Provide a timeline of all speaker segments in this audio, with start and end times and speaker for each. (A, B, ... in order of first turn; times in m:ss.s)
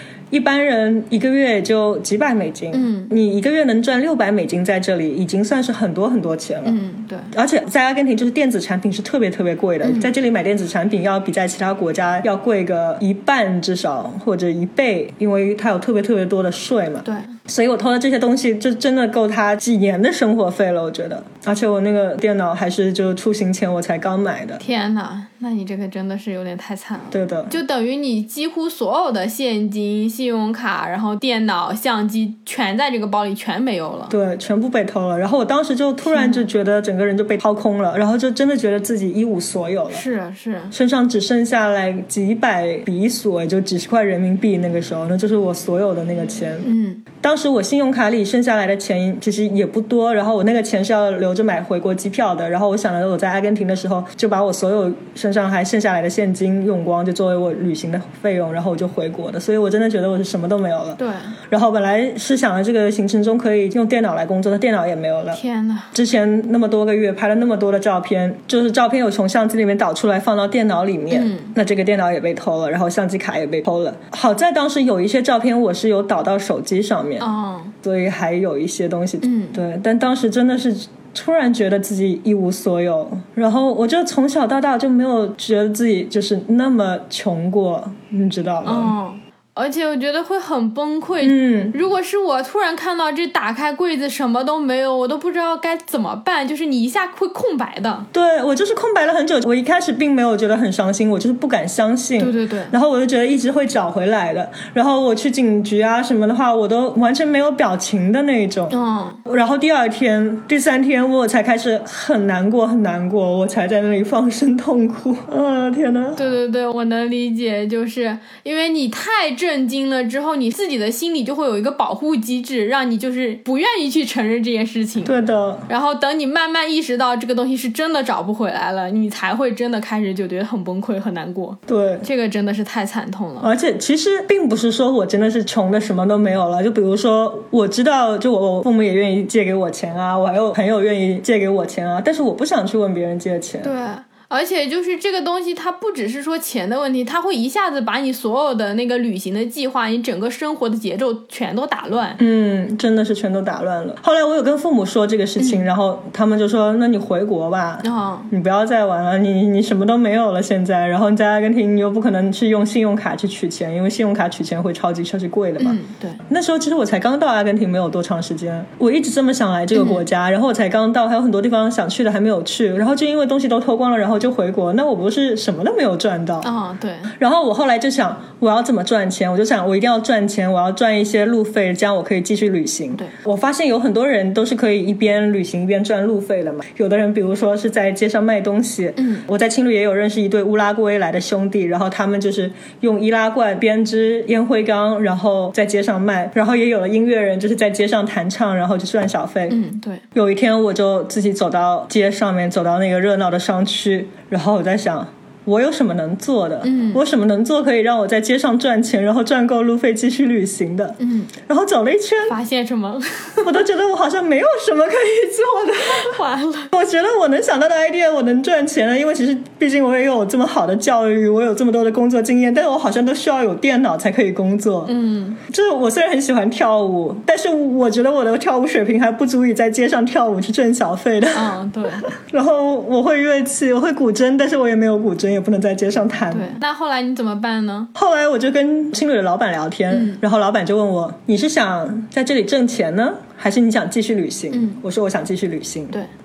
0:00.3-0:06.8 A
0:02.7-0:03.1 B
0:06.6-0:07.3 B
0:07.3-0:24.6 A
0:09.8-0:10.1 B
0:17.0-0:17.3 B
0:24.6-0:34.1 B
0:27.1-0:27.5 A
0:34.1-0:40.0 A
0:36.0-0:36.4 B
0:39.9-0:40.7 B
0:40.7-0:46.7 A
0:46.6-0:47.0 B
0:47.2-1:01.0 A
1:01.0-1:01.4 B
1:01.5-1:05.4 A
1:05.3-1:05.9 B
1:05.9-1:28.9 A
1:11.1-1:11.5 B
1:17.2-1:17.7 B
1:19.2-1:19.6 B
1:28.6-1:38.1 B
1:31.2-1:31.7 A
1:38.1-1:48.7 A
1:42.2-1:42.7 B
1:48.7-1:49.2 B
1:49.2-1:56.2 A
1:56.2-2:05.1 B
2:05.0-2:05.7 A
2:05.7-2:13.5 B
2:11.7-2:12.0 A
2:13.4-2:23.7 A
2:23.6-2:32.2 B
2:32.2-2:56.5 A
2:35.4-2:35.6 B
2:37.8-2:38.3 B
2:45.6-2:46.2 B
2:49.7-2:50.0 B
2:56.4-2:57.1 B
2:57.2-3:19.6 A
3:09.0-3:09.2 B
3:19.5-3:20.0 B
3:20.1-3:32.4 A
3:26.6-3:27.0 B
3:31.0-3:31.3 B
3:32.2-3:33.5 B
3:33.4-3:36.2 A
3:35.8-3:36.7 B
3:36.7-3:56.5 A
3:44.9-3:45.4 B
3:51.3-3:52.1 B
3:56.3-3:57.9 B
3:57.9-4:06.0 A
3:59.9-4:00.2 B
4:04.5-4:04.8 B